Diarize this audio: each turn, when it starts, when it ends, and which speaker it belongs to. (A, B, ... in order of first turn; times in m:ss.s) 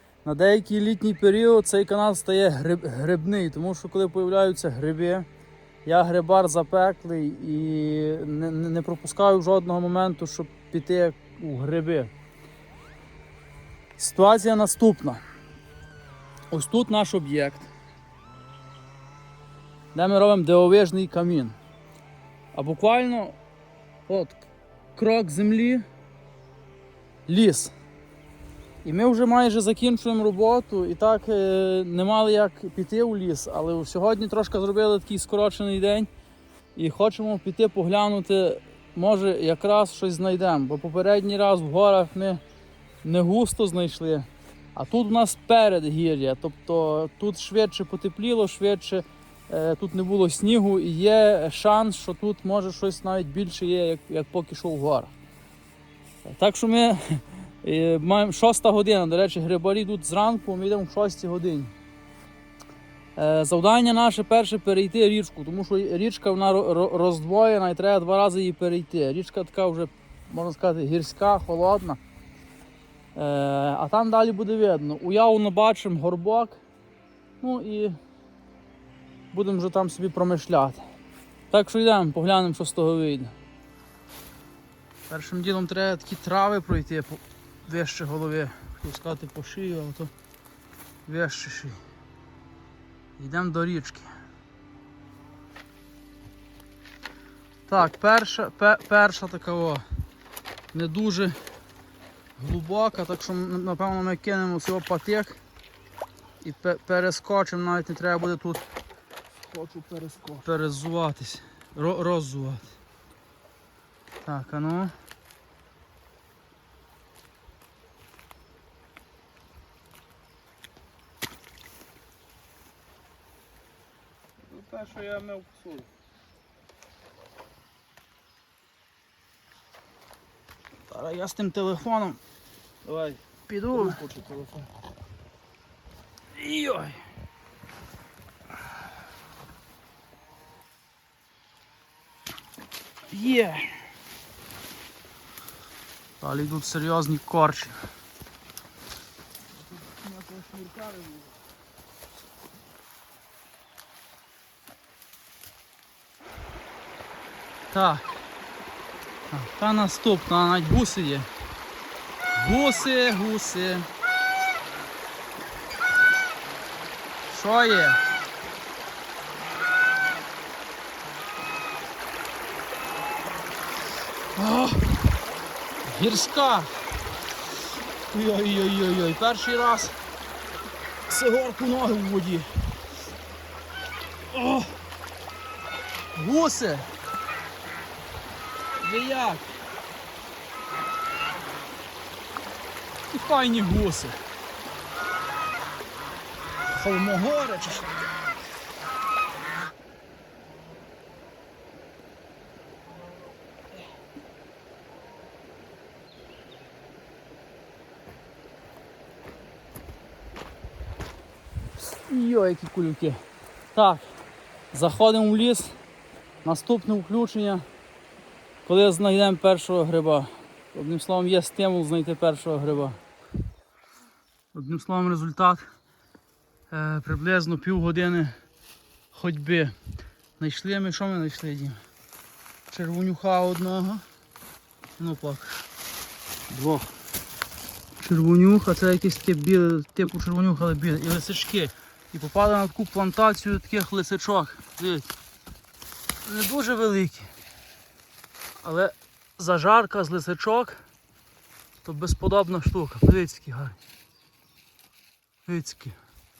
0:00.2-0:05.2 A
0:05.8-0:12.1 A
0:14.0-0:15.2 A
0:16.5-0:17.7 A
0:19.9-0:21.6 A
0:22.5-0:23.4 A
0:24.1-0:25.8 A
0:27.3-0:27.7 A
0:28.8-0:36.1 A
0:36.7-0:42.4 A
0:43.0-0:55.1 A
0:56.2-1:01.7 A
1:03.2-1:12.0 A
1:13.1-1:16.6 A
1:17.4-1:18.0 A
1:19.3-1:20.8 A
1:21.5-1:23.3 A
1:25.1-1:30.1 A
1:31.0-1:31.8 A
1:33.2-1:34.1 A
1:37.7-1:39.8 A
1:40.7-1:41.4 A
1:42.4-1:45.4 A
1:46.4-1:48.6 A
1:49.5-1:50.4 B
1:50.4-1:52.8 A
1:54.2-1:54.9 A
2:04.5-2:05.9 B
2:10.9-2:12.2 A
2:12.8-2:13.2 B
2:13.5-2:14.0 A
2:13.7-2:14.7 B
2:16.3-2:17.0 A
2:23.1-2:23.9 A
2:26.2-2:27.8 A
2:29.9-2:31.3 B
2:37.7-2:38.2 A
2:39.3-2:41.3 A
2:42.3-2:43.9 A
2:47.3-2:48.0 A
2:54.4-2:55.1 A
2:55.8-2:56.8 A
2:58.1-3:00.0 A
3:01.1-3:02.7 A
3:04.3-3:04.7 A
3:06.1-3:06.9 A
3:08.8-3:09.5 A
3:13.1-3:14.2 A
3:16.7-3:18.0 A
3:31.8-3:33.2 A
3:33.7-3:34.1 A
3:34.7-3:35.7 A
3:36.4-3:37.6 A
3:38.6-3:43.0 A
3:44.5-3:45.6 A
3:46.7-3:48.4 A
3:49.1-3:49.7 A
3:50.4-3:51.8 A
3:52.7-3:54.0 A
3:55.0-3:55.6 A
3:56.5-3:56.9 A
3:58.0-4:05.1 A
4:06.2-4:07.3 A
4:08.6-4:10.8 A
4:11.8-4:13.8 A
4:15.4-4:16.0 A